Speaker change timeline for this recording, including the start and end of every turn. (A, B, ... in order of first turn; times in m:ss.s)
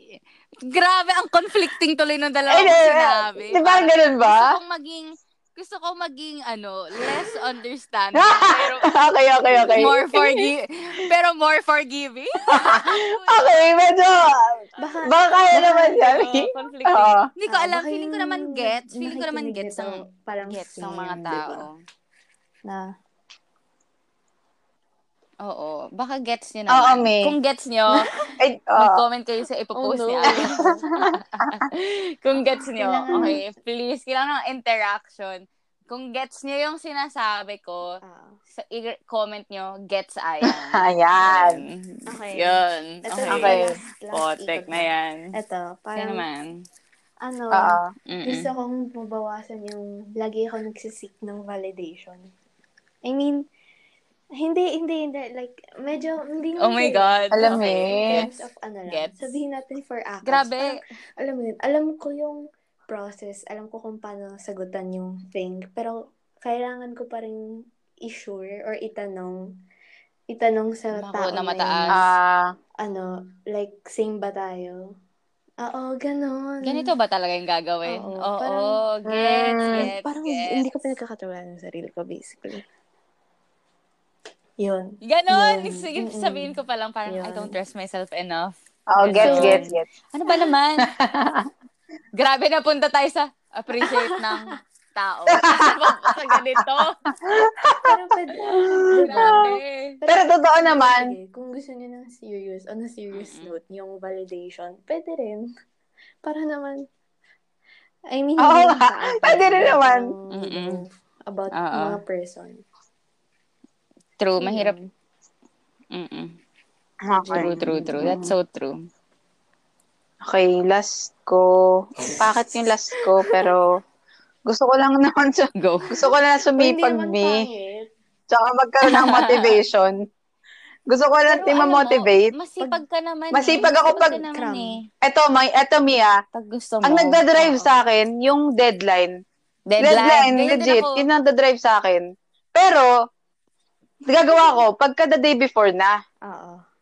0:00.6-0:08.9 A
0:02.5-0:04.5 B
0:08.1-0:10.4 B
0:09.5-0:13.6 A
0:12.5-0:17.3 B
0:14.8-0:16.1 C
0:15.9-0:21.7 A
0:17.5-0:21.6 C
0:22.6-0:22.9 C
0:25.4-0:28.1 A
0:26.7-0:27.3 B
0:28.4-0:29.0 B
0:28.8-0:38.0 A
0:29.8-0:30.8 C
0:30.3-0:31.5 B
0:32.8-0:33.4 C
0:38.0-0:38.4 C
0:38.6-0:45.3 A
0:40.4-0:41.6 B
0:42.1-0:46.2 C
0:43.3-0:43.7 B
0:46.0-0:46.5 A
0:47.2-0:52.3 C
0:47.5-0:47.9 B
0:48.1-0:48.5 A
0:53.0-0:53.4 C
0:54.4-1:09.5 C
0:56.6-0:59.4 A
0:57.3-0:58.2 B
1:00.2-1:00.7 A
1:10.3-1:12.0 C
1:10.9-1:12.0 A
1:11.9-1:12.5 B
1:12.8-1:15.0 C
1:15.6-1:16.9 C
1:16.6-1:20.8 A
1:17.9-1:18.8 C
1:19.1-1:19.9 B
1:19.7-1:22.6 C
1:24.6-1:26.5 C
1:25.0-1:30.9 A
1:27.1-1:27.6 C
1:28.9-1:29.8 B
1:29.2-1:29.7 C
1:30.9-1:31.5 B
1:32.2-1:37.0 A
1:35.3-1:36.6 B
1:37.2-1:37.9 B
1:37.8-1:45.5 C
1:38.4-1:39.4 B
1:39.0-1:40.0 A
1:40.1-1:41.1 B
1:43.1-1:43.5 A
1:46.2-1:46.9 C
1:48.1-1:52.6 C
1:48.4-1:50.1 B
1:50.3-1:50.8 A
1:51.5-1:52.0 A
1:54.2-1:54.7 A
1:54.4-1:54.9 C
1:55.9-1:56.3 A
1:57.1-1:57.7 B
1:57.1-1:58.3 C
1:57.3-1:58.7 A
2:00.2-2:03.7 B
2:03.2-2:03.5 C
2:04.5-2:07.4 B
2:05.6-2:06.0 A
2:06.6-2:07.9 C
2:08.3-2:10.0 B
2:08.8-2:09.6 A
2:10.9-2:12.3 B
2:11.3-2:11.6 C
2:11.3-2:14.8 A
2:13.3-2:14.2 B
2:13.6-2:14.8 C
2:15.0-2:16.2 B
2:16.3-2:17.8 A
2:16.8-2:19.1 B
2:19.7-2:21.0 A
2:19.8-2:22.9 B
2:24.1-2:26.0 B
2:26.2-2:26.6 C